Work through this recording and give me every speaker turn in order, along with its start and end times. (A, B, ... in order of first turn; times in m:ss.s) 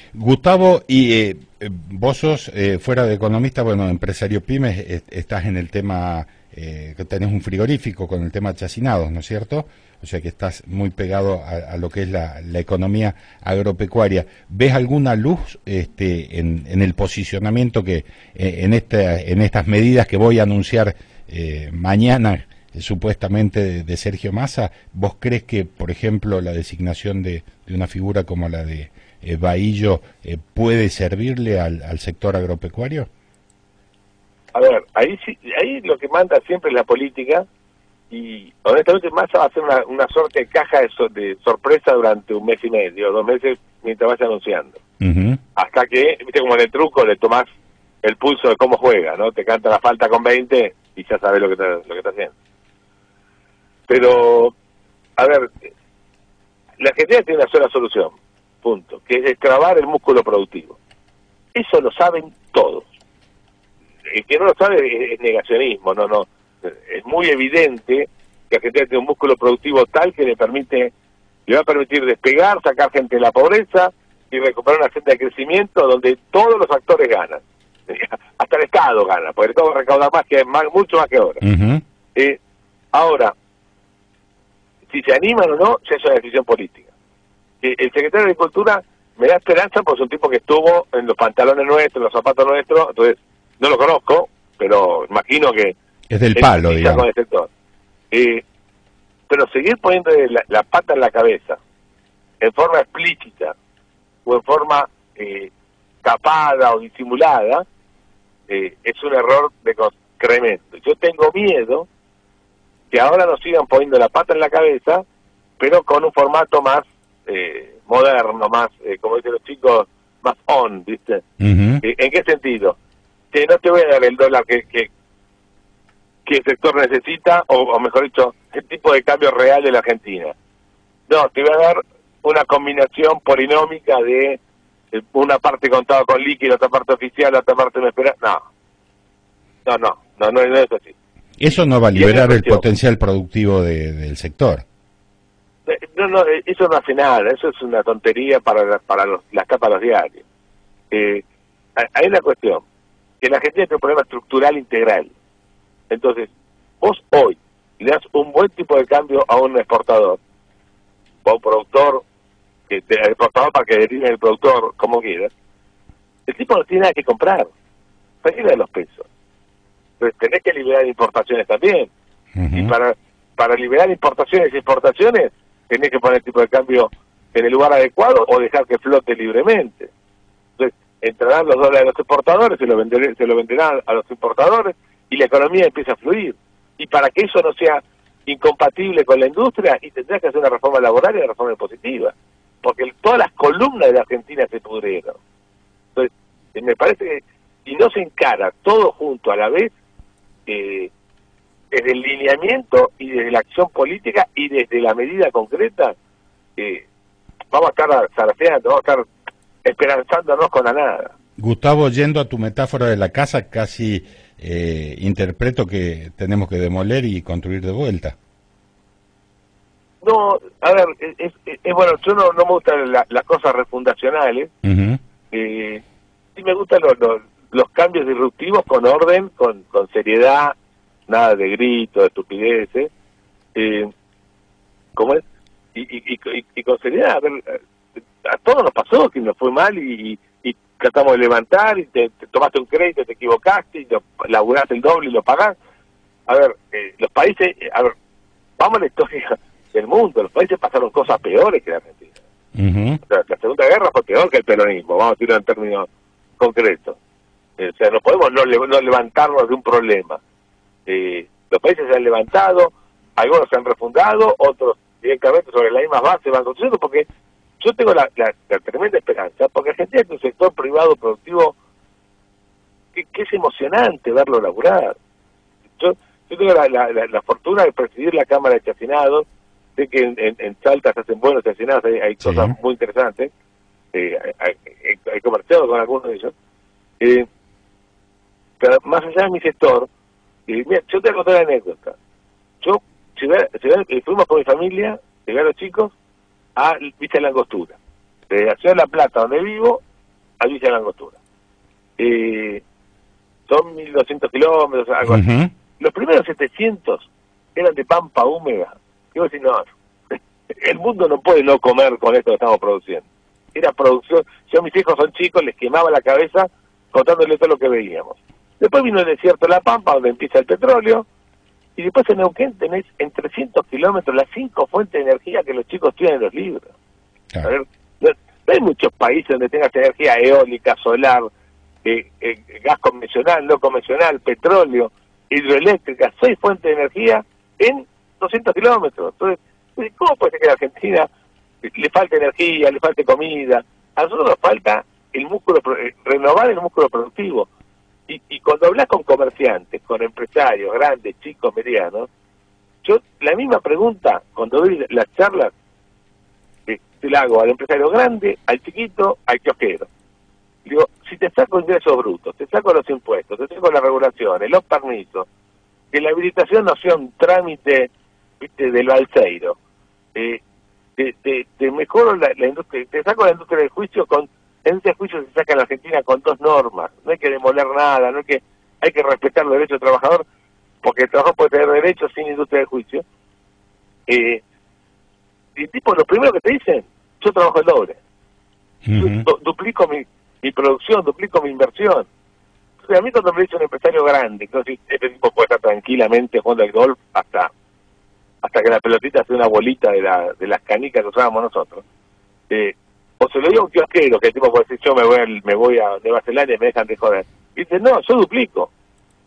0:00.1-0:33.1 A
0:34.5-0:37.4 B
0:38.1-0:44.8 B
0:45.0-0:45.4 A
0:45.6-0:47.5 B
0:48.0-0:52.3 B
0:53.9-0:54.5 B
0:55.2-0:55.7 B
0:56.8-1:00.8 B
1:01.5-1:02.9 B
1:04.1-1:10.9 B
1:11.5-1:21.4 B
1:21.4-1:21.8 A
1:22.9-1:23.3 B
1:24.9-1:26.9 B
1:27.6-1:35.7 B
1:36.1-1:37.0 A
1:36.3-1:37.5 B
1:38.1-1:38.4 B
1:39.3-1:41.6 B
1:42.4-1:43.6 B
1:44.2-1:45.5 B
1:46.0-1:47.6 B
1:48.5-1:51.9 B
1:52.9-1:55.0 B
1:55.6-2:01.2 B
2:01.4-2:01.8 A
2:01.8-2:02.8 B
2:03.3-2:04.9 B
2:06.2-2:10.3 B
2:11.1-2:14.4 B
2:14.9-2:18.4 B
2:19.6-2:20.9 B
2:21.4-2:24.6 A
2:21.5-2:22.6 B
2:25.7-2:30.2 B
2:30.9-2:31.2 B
2:31.8-2:32.6 B
2:33.2-2:35.1 B
2:35.9-2:40.2 B
2:41.2-2:42.0 B
2:42.7-2:45.3 B
2:46.2-2:47.5 B
2:48.2-2:49.1 B
2:50.0-2:51.9 B
2:52.4-2:52.7 A
2:52.5-2:59.9 B
3:00.6-3:15.2 B
3:16.0-3:19.7 B
3:20.5-3:20.9 B
3:21.7-3:25.9 B
3:26.6-3:26.8 B
3:27.5-3:29.1 B
3:29.6-3:31.1 B
3:31.4-3:38.2 A
3:40.0-3:44.5 B
3:44.6-3:45.0 A
3:45.3-3:45.8 B
3:46.4-3:50.5 B
3:51.1-3:52.9 B
3:53.5-3:53.9 B
3:55.0-3:55.2 B
3:55.7-3:57.6 B
3:58.2-4:05.6 B
4:06.3-4:07.9 B
4:08.6-4:12.1 B
4:12.6-4:13.0 A
4:13.0-4:15.9 B
4:16.4-4:17.0 B
4:17.6-4:20.2 B
4:20.9-4:27.0 B
4:27.6-4:31.5 B
4:32.9-4:35.0 B
4:35.8-4:39.2 B
4:39.8-4:43.3 B
4:42.2-4:42.5 A
4:43.9-4:46.3 B
4:47.0-4:47.2 B
4:48.6-4:49.9 B
4:50.5-4:52.0 B
4:52.6-4:55.9 B
4:56.6-4:57.8 B
4:58.3-4:59.8 B
5:00.4-5:01.2 B
5:02.0-5:02.6 B
5:03.5-5:05.2 B
5:05.0-5:05.5 A
5:05.8-5:21.0 B
5:21.8-5:26.7 B
5:27.4-5:31.3 B
5:31.8-5:41.1 B
5:41.6-5:47.5 B
5:48.1-5:52.1 B
5:52.8-5:55.5 B
5:56.7-5:59.9 B
6:00.6-6:05.3 B
6:05.9-6:09.6 B
6:10.1-6:10.4 B
6:11.0-6:20.2 B
6:20.8-6:23.0 B
6:24.1-6:24.4 B
6:25.6-6:28.0 B
6:28.8-6:29.3 A
6:29.0-6:32.1 B
6:32.8-6:37.5 B
6:38.4-6:41.8 B
6:42.5-6:48.7 B